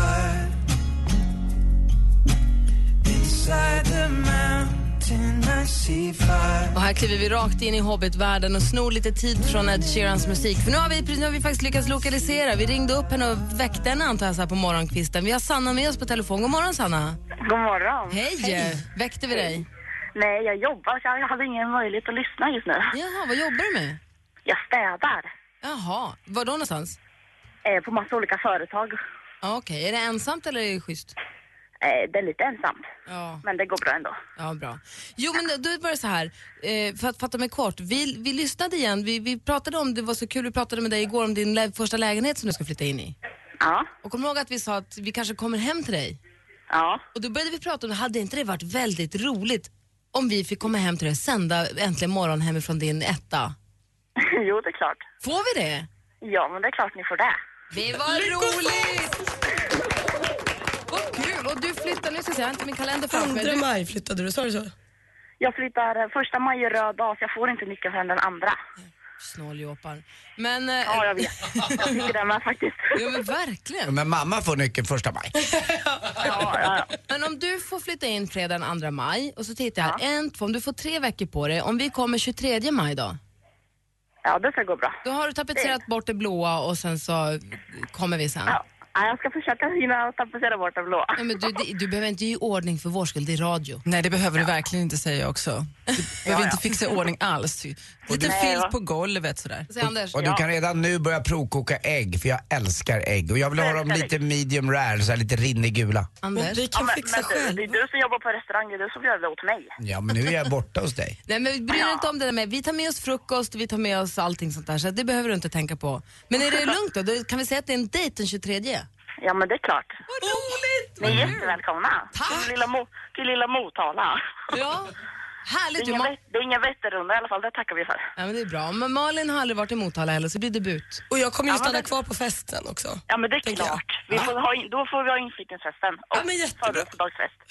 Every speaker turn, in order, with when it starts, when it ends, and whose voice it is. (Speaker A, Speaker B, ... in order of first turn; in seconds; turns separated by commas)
Speaker A: 6.7-17.2, Speaker B: 17.4-18.5, Speaker A: 18.1-19.6, Speaker B: 20.1-22.9, Speaker A: 22.9-24.0, Speaker B: 24.4-25.3, Speaker A: 25.6-27.0, Speaker B: 27.6-28.9, Speaker A: 29.4-31.1, Speaker B: 31.8-32.8, Speaker A: 33.1-33.4, Speaker B: 33.4-34.2, Speaker A: 34.4-43.1, Speaker B: 43.6-43.9, Speaker A: 44.0-46.2, Speaker B: 46.7-47.0, Speaker A: 47.1-53.5, Speaker B: 54.2-55.0, Speaker A: 55.2-55.9, Speaker B: 56.2-57.4, Speaker A: 57.7-59.2, Speaker C: 58.1-58.7, Speaker A: 60.9-63.6, Speaker C: 63.1-64.7, Speaker B: 65.4-68.6, Speaker A: 69.2-72.0, Speaker B: 70.8-72.9, Speaker A: 72.9-73.9, Speaker D: 73.8-75.3, Speaker C: 75.7-76.3, Speaker B: 76.2-76.9, Speaker A: 77.1-83.2, Speaker B: 84.2-85.0, Speaker A: 85.0-88.6, Speaker B: 88.5-91.2, Speaker A: 91.2-93.8, Speaker E: 93.8-99.7, Speaker B: 96.2-96.6, Speaker D: 98.1-98.3, Speaker B: 98.1-98.7, Speaker A: 99.7-100.2, Speaker D: 100.1-106.1, Speaker B: 100.2-100.4, Speaker B: 103.5-104.1, Speaker A: 106.2-106.6, Speaker C: 106.3-107.8, Speaker B: 106.7-109.7, Speaker D: 109.8-111.2, Speaker A: 111.3-118.9, Speaker B: 111.7-112.0, Speaker B: 119.2-120.0, Speaker A: 120.1-121.5, Speaker B: 121.0-124.2, Speaker D: 121.0-121.3, Speaker A: 122.1-122.5, Speaker A: 124.5-124.9, Speaker A: 125.4-126.1, Speaker B: 125.8-128.1, Speaker A: 128.2-131.0, Speaker C: 131.1-134.3, Speaker B: 131.6-131.8, Speaker B: 133.1-137.4, Speaker C: 136.1-136.8